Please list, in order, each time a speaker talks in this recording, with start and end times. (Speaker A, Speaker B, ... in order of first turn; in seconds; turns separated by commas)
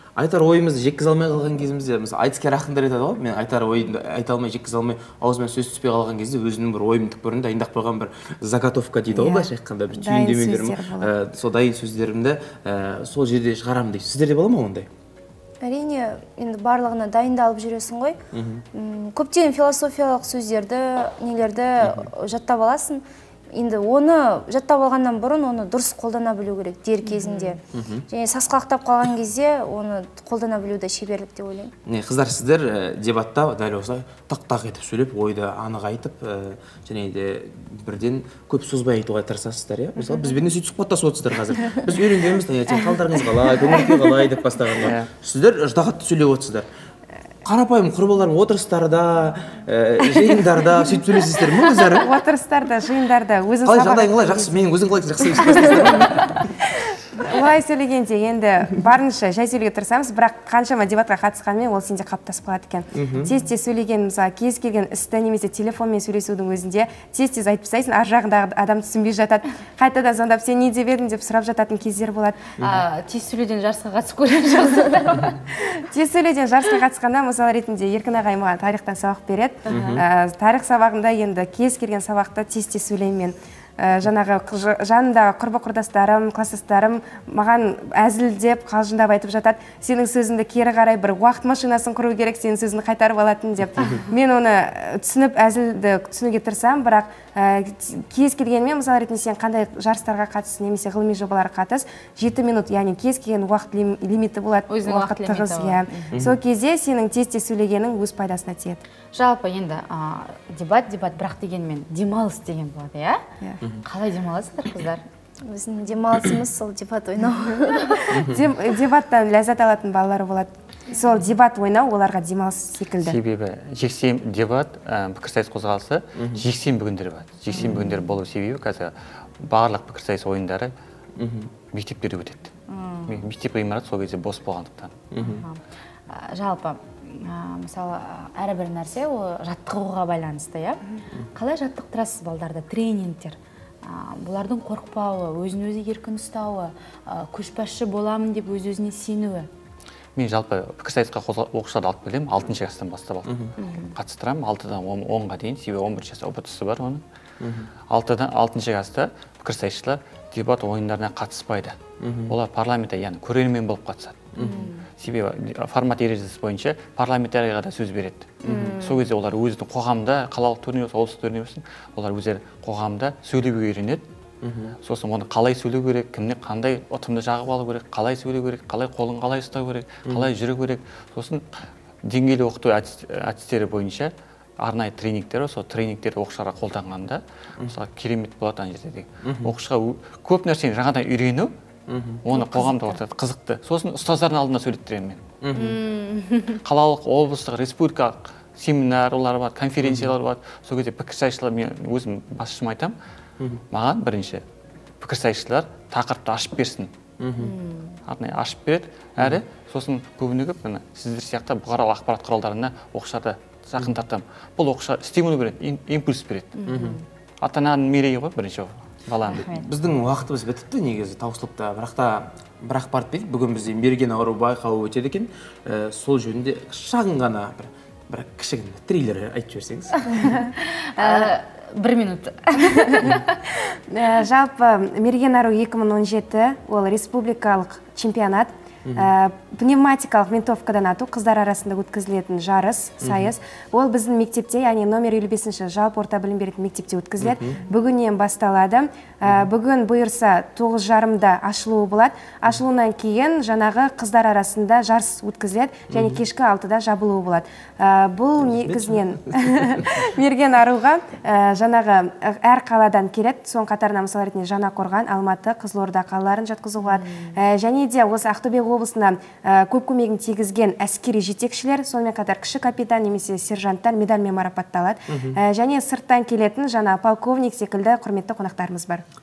Speaker A: 0.1-14.9, Speaker B: 9.1-11.1, Speaker C: 15.6-18.2, Speaker A: 18.3-18.6, Speaker C: 18.7-31.7, Speaker A: 21.8-22.1, Speaker D: 27.0-27.6, Speaker A: 27.7-28.1, Speaker A: 31.9-46.7, Speaker E: 44.8-45.1, Speaker A: 47.4-52.1, Speaker B: 51.8-54.7, Speaker A: 53.6-56.5, Speaker B: 55.2-56.0, Speaker B: 57.2-72.5, Speaker A: 62.9-63.3, Speaker D: 72.6-75.5, Speaker B: 75.9-108.8, Speaker A: 79.7-80.0, Speaker D: 79.7-80.0, Speaker D: 104.7-106.2, Speaker D: 109.1-113.2, Speaker D: 113.8-115.0, Speaker C: 115.5-118.2, Speaker A: 118.1-118.4, Speaker B: 118.1-123.2, Speaker E: 123.0-130.7, Speaker A: 126.2-126.5, Speaker D: 127.5-128.0, Speaker A: 127.6-127.9, Speaker A: 131.2-131.5, Speaker E: 131.7-132.5, Speaker D: 132.7-133.3, Speaker E: 133.1-134.9, Speaker A: 135.1-135.4, Speaker D: 135.2-149.5, Speaker E: 150.1-157.0, Speaker A: 153.2-153.5, Speaker D: 153.6-153.9, Speaker A: 157.4-157.7, Speaker E: 157.9-161.8, Speaker A: 162.0-162.4, Speaker E: 162.3-164.4, Speaker D: 164.4-164.8, Speaker E: 165.0-174.0, Speaker D: 168.4-169.1, Speaker A: 168.5-168.7, Speaker A: 174.4-174.8, Speaker E: 174.8-181.4, Speaker E: 182.0-191.5, Speaker A: 189.2-189.5, Speaker A: 191.9-192.2, Speaker E: 192.2-195.2, Speaker D: 192.3-192.9, Speaker A: 195.4-195.8, Speaker D: 195.5-196.6, Speaker E: 196.6-203.0, Speaker A: 199.8-200.1, Speaker E: 203.7-204.4, Speaker E: 205.0-206.9, Speaker A: 207.2-207.5, Speaker D: 207.4-208.0, Speaker E: 208.1-216.6, Speaker D: 216.6-217.0, Speaker A: 216.7-217.0, Speaker E: 217.4-219.5, Speaker D: 219.3-219.7, Speaker A: 219.4-230.1, Speaker D: 230.1-233.6, Speaker B: 231.0-231.3, Speaker B: 233.9-279.0, Speaker A: 243.0-243.3, Speaker A: 247.2-247.6, Speaker A: 255.9-256.2, Speaker A: 258.4-259.5, Speaker D: 266.8-267.4, Speaker A: 275.1-275.4